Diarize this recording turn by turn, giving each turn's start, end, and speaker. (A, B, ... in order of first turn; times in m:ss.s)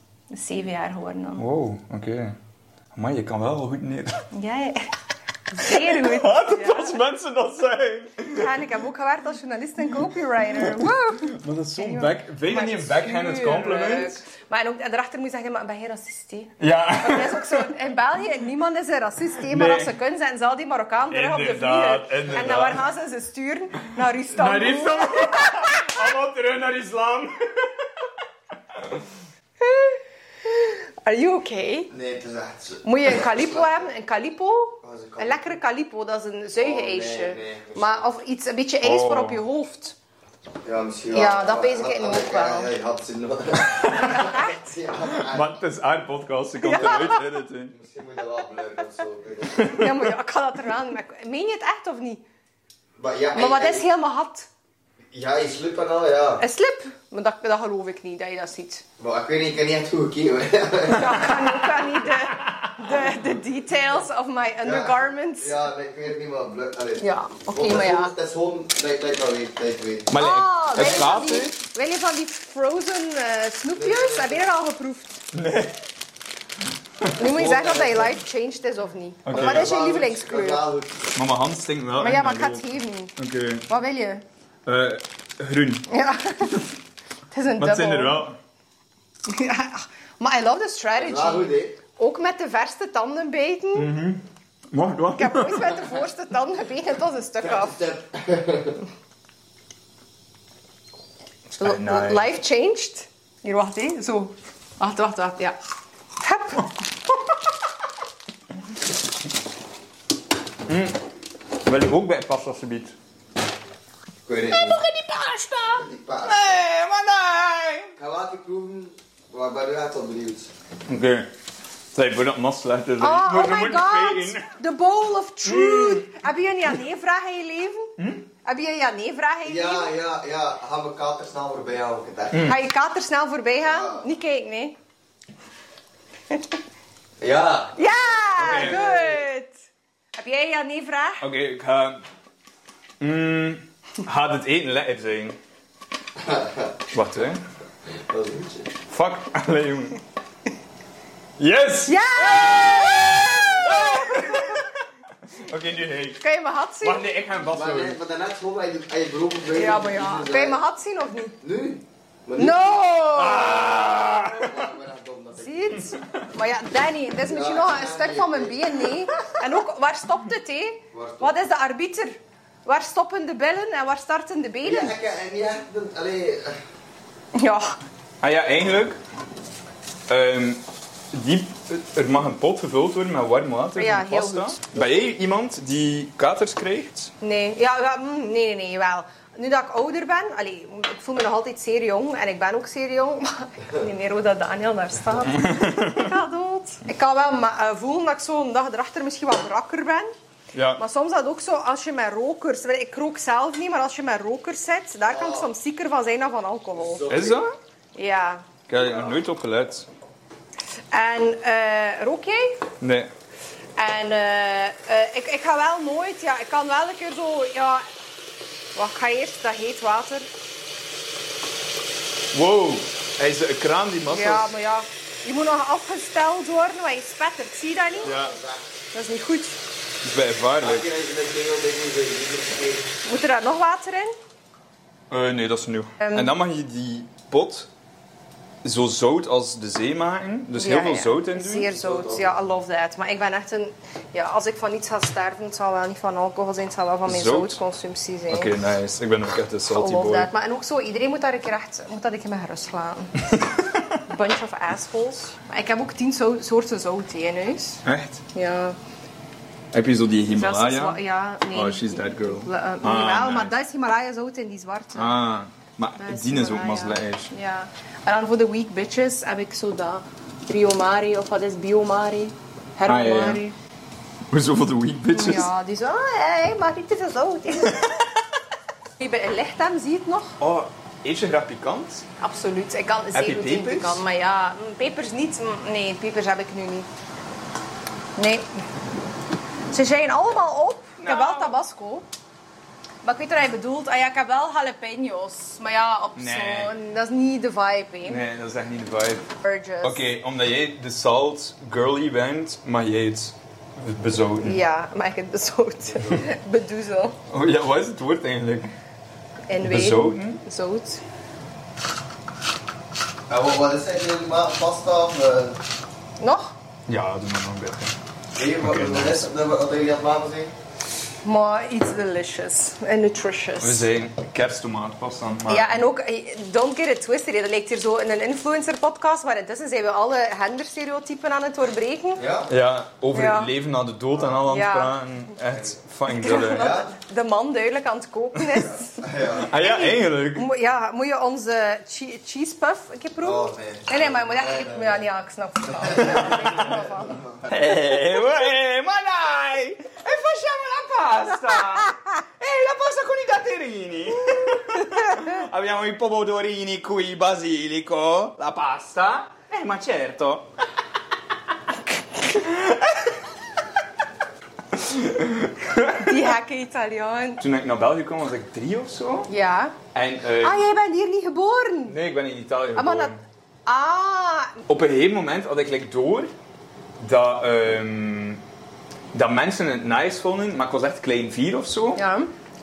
0:00.3-0:01.4 A
0:01.4-0:02.4 B
0:02.9-0:04.2 B
0:04.3-0:04.9 A
0:05.5-0:07.0 A
0:05.6-0:08.5 B
0:08.3-0:25.9 A
0:10.6-0:14.2 B
0:16.6-0:17.7 B
0:19.4-0:19.9 B
0:21.1-0:22.8 B
0:24.3-0:27.8 B
0:29.6-0:31.9 A
0:31.9-0:33.9 C
0:32.8-0:40.0 A
0:34.8-0:35.5 C
0:36.6-0:38.1 C
0:38.8-0:39.4 B
0:40.6-0:45.5 C
0:41.1-0:42.7 A
0:43.8-0:44.1 B
0:43.9-0:44.8 A
0:45.1-0:47.7 B
0:46.6-0:47.2 A
0:47.7-0:49.8 C
0:49.6-0:49.9 B
0:49.7-0:52.2 A
0:53.0-0:53.8 C
0:53.3-0:54.5 A
0:55.1-0:56.4 C
0:56.4-0:58.8 A
0:59.0-1:01.6 C
1:00.9-1:05.7 A
1:04.6-1:10.1 C
1:07.0-1:08.1 A
1:10.1-1:11.6 B
1:10.2-1:15.2 A
1:13.7-1:14.4 C
1:15.3-1:15.7 B
1:17.2-1:20.6 A
1:17.2-1:18.2 C
1:19.2-1:19.7 B
1:19.3-1:21.0 C
1:21.1-1:23.7 B
1:22.0-1:23.1 A
1:23.7-1:24.2 A
1:24.6-1:25.9 B
1:25.9-1:26.6 A
1:27.3-1:28.2 A
1:27.6-1:28.4 B
1:29.2-1:33.9 A
1:31.0-1:31.8 C
1:33.7-1:35.9 B
1:35.2-1:37.8 A
1:37.4-1:38.8 C
1:41.5-1:42.3 B
1:41.6-1:45.6 A
1:46.2-1:46.7 A
1:50.7-1:51.0 B
1:51.6-1:53.0 B
1:54.2-1:54.8 C
1:54.5-1:55.8 A
1:55.7-1:56.6 C
1:56.2-1:57.9 B
1:58.0-2:00.5 C
2:00.9-2:01.3 B
2:01.9-2:04.5 B
2:03.0-2:07.9 A
2:05.4-2:06.0 B
2:08.0-2:08.2 B
2:08.4-2:09.9 A
2:09.4-2:12.5 C
2:12.3-2:12.6 B
2:12.4-2:14.8 A
2:13.6-2:14.0 C
2:16.3-2:16.6 A
2:17.2-2:17.8 C
2:17.8-2:19.6 A
2:18.4-2:18.8 B
2:18.5-2:19.1 C
2:20.2-2:21.2 A
2:21.2-2:22.0 B
2:23.0-2:25.4 B
2:26.2-2:26.7 C
2:26.9-2:27.4 B
2:28.1-2:28.7 C
2:28.9-2:30.0 B
2:31.4-2:34.6 B
2:31.9-2:34.5 A
2:35.3-2:36.2 B
2:36.2-2:37.1 A
2:36.8-2:38.0 B
2:37.4-2:40.6 C
2:39.5-2:41.4 A
2:41.4-2:42.7 C
2:42.4-2:43.8 A
2:43.1-2:44.7 B
2:43.6-2:45.9 C
2:45.4-2:55.0 A
2:45.8-2:46.2 B
2:47.2-2:48.7 C
2:50.9-2:51.3 C
2:54.6-2:56.6 C
2:57.3-2:57.8 A
2:58.2-2:59.0 B
3:00.1-3:07.1 B
3:03.8-3:04.6 A
3:07.2-3:20.1 A
3:15.2-3:16.1 B
3:20.5-3:20.8 B
3:20.8-3:27.0 A
3:25.1-3:25.5 C
3:26.8-3:27.4 C
3:27.1-3:27.5 B
3:27.9-3:28.5 A
3:28.7-3:29.9 B
3:28.8-3:29.1 C
3:30.9-3:32.6 A
3:32.8-3:33.1 B
3:33.8-3:37.8 A
3:38.7-3:40.3 A
3:42.3-3:44.5 B
3:44.1-3:48.2 A
3:47.9-3:48.7 C
3:48.0-3:48.4 B
3:48.9-3:49.6 A
3:50.0-3:50.9 B
3:50.6-3:52.9 C
3:53.0-3:54.2 A
3:55.1-3:57.7 B
3:56.0-3:56.3 A
3:58.6-4:01.7 B
4:00.5-4:08.5 A
4:01.7-4:02.3 C
4:07.0-4:07.6 B
4:08.3-4:10.3 B
4:09.7-4:13.4 A
4:13.3-4:14.0 B
4:14.0-4:18.8 A
4:17.8-4:18.2 B
4:19.7-4:21.0 B
4:20.3-4:25.2 A
4:21.5-4:23.5 B
4:24.9-4:27.3 B
4:26.0-4:33.6 A
4:32.9-4:33.4 B
4:34.3-4:35.5 B
4:35.1-4:37.9 A
4:39.0-4:40.4 A
4:40.4-4:42.0 B
4:42.2-4:46.9 A
4:43.1-4:44.0 B
4:48.2-4:48.6 A
4:49.7-4:52.0 A
4:51.0-4:51.6 B
4:53.0-4:58.2 A
4:56.2-4:56.7 B
4:58.0-4:59.3 B
4:59.4-5:00.1 A
4:59.8-5:04.6 B
5:04.4-5:07.2 A
5:07.3-5:08.7 B
5:09.5-5:11.0 A
5:09.6-5:10.4 B
5:13.3-5:15.6 C
5:16.2-5:16.5 A
5:16.9-5:18.0 B
5:18.4-5:20.5 C
5:18.6-5:19.3 B
5:21.2-5:23.9 A
5:23.6-5:25.8 B
5:25.5-5:32.2 A
5:32.2-5:32.5 C
5:32.5-5:36.8 B
5:33.1-5:33.5 A
5:34.4-5:35.0 A
5:36.1-5:47.2 A
5:36.5-5:36.9 C
5:38.6-5:39.5 C
5:39.4-5:40.5 B
5:43.2-5:45.0 C
5:45.7-5:47.5 C
5:47.5-6:00.5 B
5:51.5-5:51.9 A
6:02.3-6:03.0 B
6:04.7-6:06.1 B
6:05.9-6:07.4 A
6:07.4-6:09.3 B
6:09.3-6:09.8 A
6:09.9-6:10.6 B
6:10.4-6:12.0 A
6:11.9-6:13.2 B
6:12.7-6:13.1 A
6:13.6-6:14.6 A
6:14.7-6:16.3 B
6:17.0-6:18.4 B
6:19.1-6:22.0 B
6:22.0-6:22.3 A